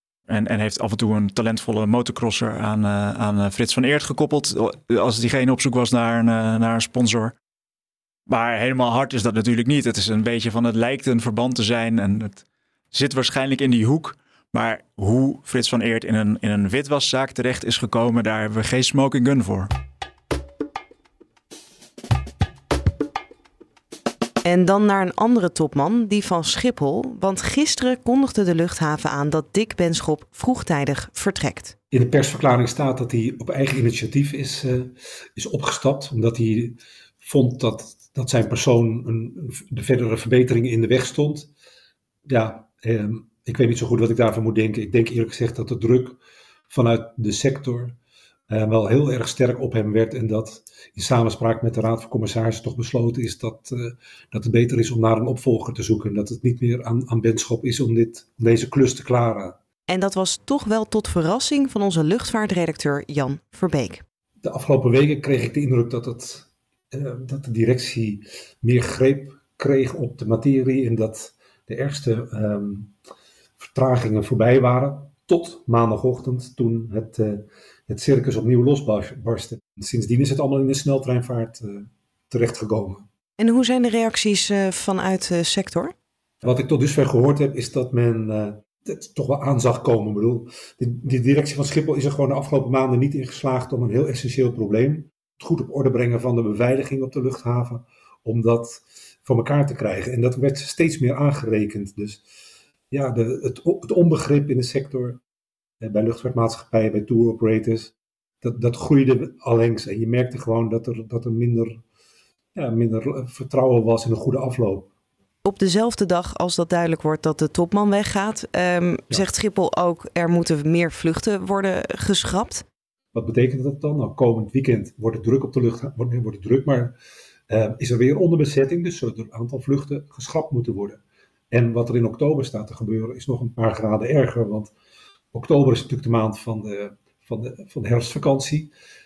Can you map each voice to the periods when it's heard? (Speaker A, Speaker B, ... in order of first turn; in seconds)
Speaker A: 0.3-7.3, 8.3-19.7
Speaker B: 24.4-31.7, 59.9-64.0, 83.4-85.9, 115.4-122.7
Speaker C: 31.9-41.5, 42.3-48.0, 48.5-59.6, 64.4-72.9, 73.6-83.0, 86.4-102.2, 102.9-105.2, 105.8-111.8, 112.6-114.9, 123.1-127.0, 127.5-131.0, 131.5-134.7, 135.3-138.7